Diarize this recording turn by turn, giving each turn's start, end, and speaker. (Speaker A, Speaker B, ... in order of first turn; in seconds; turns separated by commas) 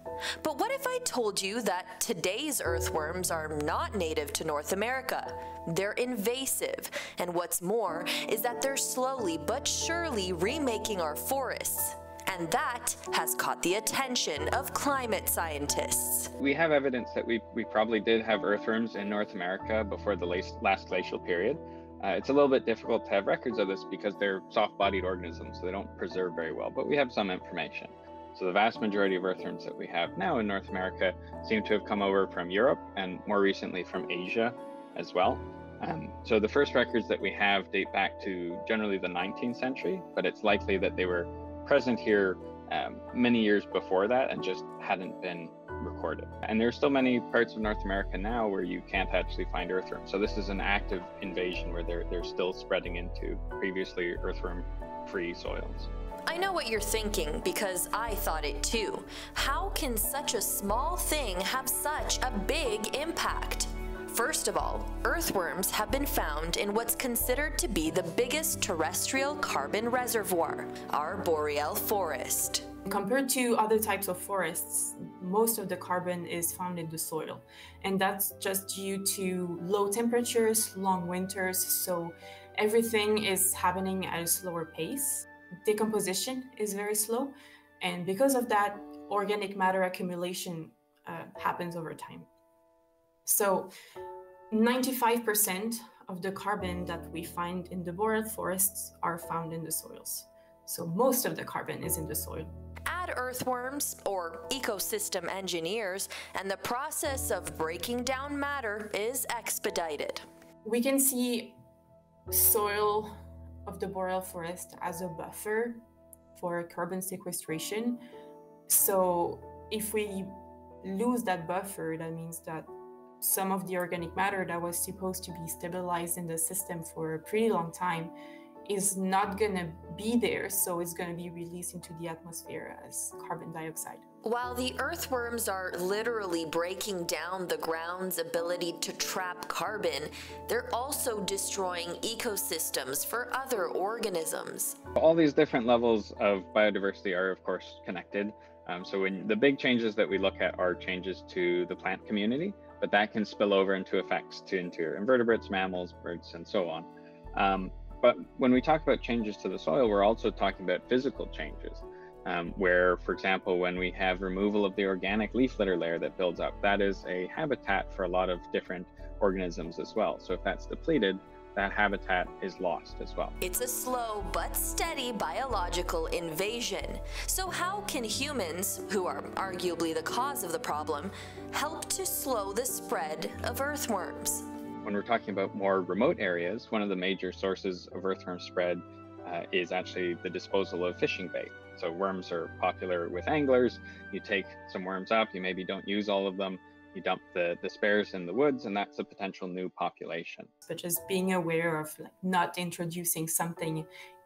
Speaker A: 0.4-16.3, Speaker B: 16.4-55.9, Speaker A: 56.3-72.7, Speaker C: 72.9-92.3, Speaker C: 93.2-93.7, Speaker C: 94.5-102.5, Speaker A: 102.9-110.2, Speaker C: 110.6-111.6, Speaker C: 112.3-113.1, Speaker C: 113.7-115.8, Speaker C: 116.3-118.0, Speaker C: 118.7-122.7, Speaker C: 123.2-128.1, Speaker C: 128.7-134.1, Speaker A: 134.2-144.8, Speaker B: 145.0-173.3, Speaker A: 173.4-184.4, Speaker B: 184.8-200.5, Speaker C: 200.6-203.9